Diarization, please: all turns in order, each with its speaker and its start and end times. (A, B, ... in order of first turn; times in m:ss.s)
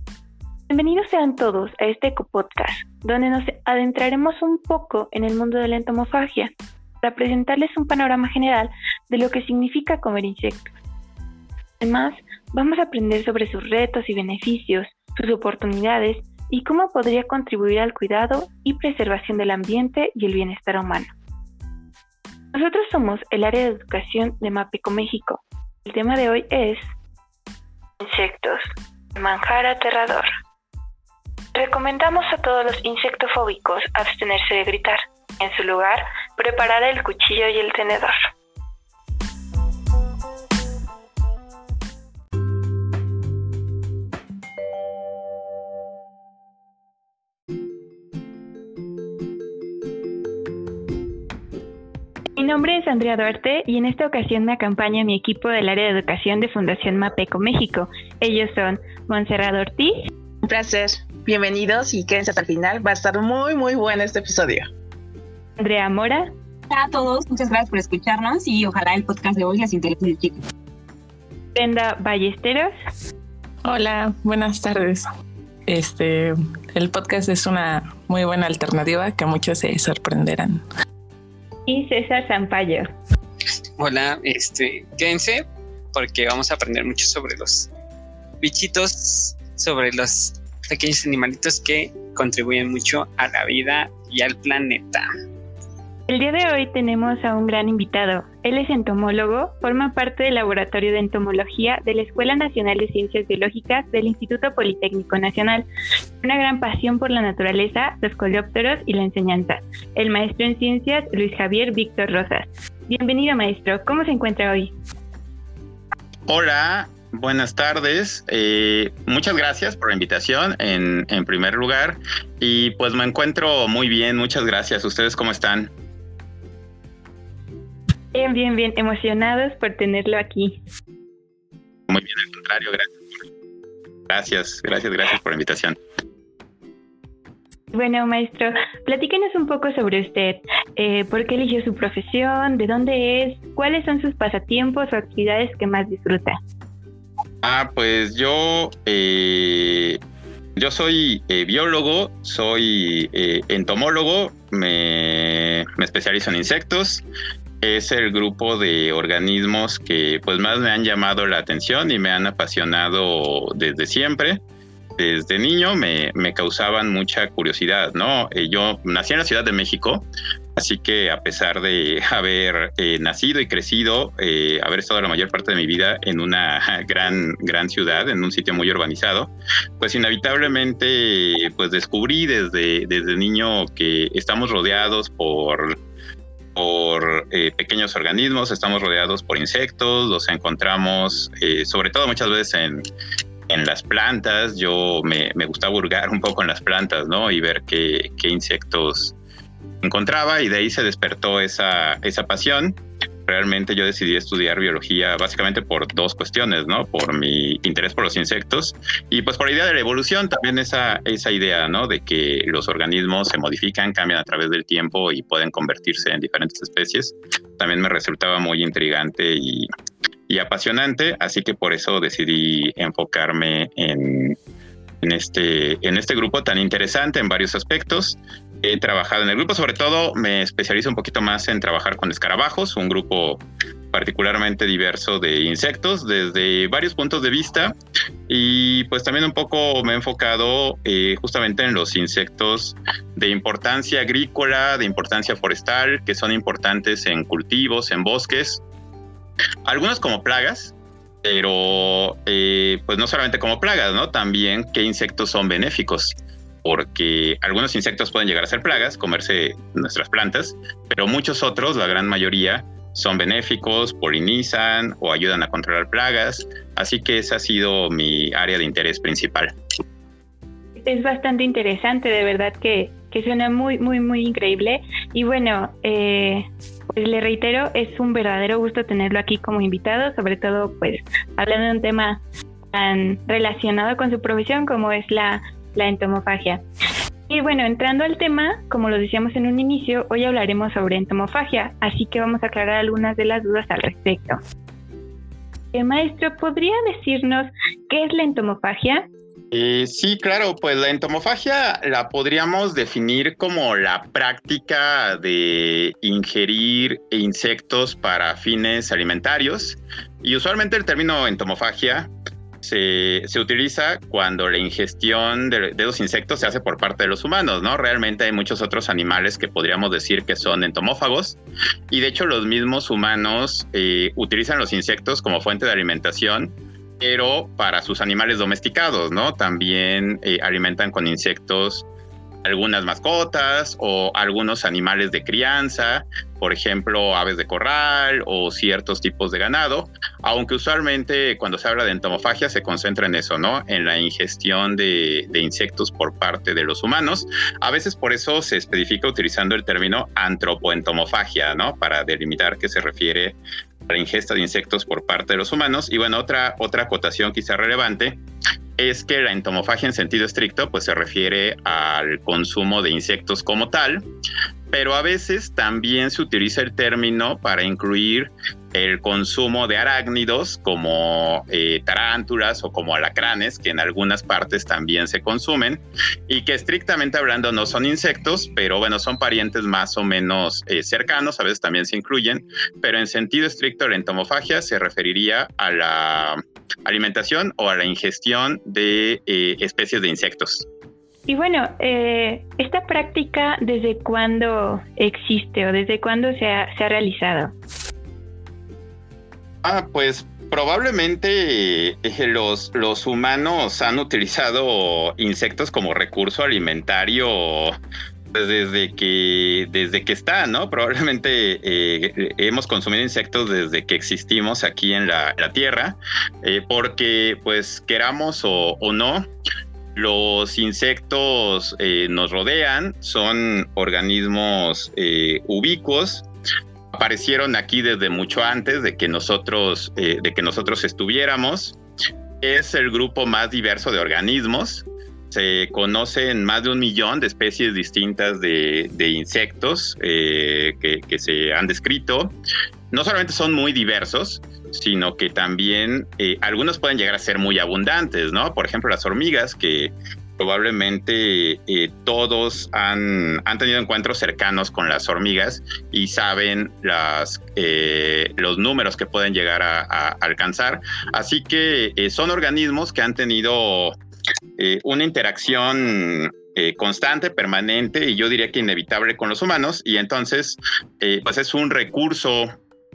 0:00.7-0:10.6 A
0:11.8-0:21.1 A
0:22.5-0:26.8 A
0:28.0-0:28.6 A
0:29.1-0:30.3 A
0:31.5-0:38.3 A
0:52.4-0:59.9 A
1:00.4-1:04.7 B
1:05.6-1:06.3 A
1:06.7-1:10.4 C
1:11.5-1:12.7 A
1:13.6-1:15.1 D
1:15.7-1:20.6 D
1:21.7-1:22.9 A
1:23.8-1:27.7 E
1:28.4-1:35.1 E
1:36.1-1:45.6 A
1:46.2-1:54.7 A
1:56.3-2:05.7 F
2:08.1-2:10.6 A
2:11.9-2:13.0 F
2:14.1-2:15.8 F
2:17.7-2:26.4 A
2:27.4-2:30.0 F
2:30.6-2:37.0 F
2:37.6-2:44.4 F
2:45.0-3:05.8 F
3:06.5-3:12.8 F
3:13.5-3:19.1 F
3:19.8-3:39.7 F
3:40.3-3:44.4 F
3:45.0-3:57.8 F
3:58.3-4:08.6 F
4:09.6-4:29.5 F
4:30.8-4:42.2 A
4:42.7-4:46.6 A
4:47.3-4:54.4 A
4:55.7-4:59.1 A
4:59.5-5:12.1 F
5:12.6-5:21.4 F
5:21.9-5:31.8 F
5:32.4-5:58.2 F
5:58.8-6:04.0 F
6:04.7-6:30.7 F
6:31.3-6:37.5 A
6:39.6-6:47.8 F
6:48.3-6:59.3 F
6:59.9-7:06.2 F
7:06.9-7:11.8 F
7:12.4-7:22.3 F
7:22.9-7:44.0 F
7:44.6-7:52.5 F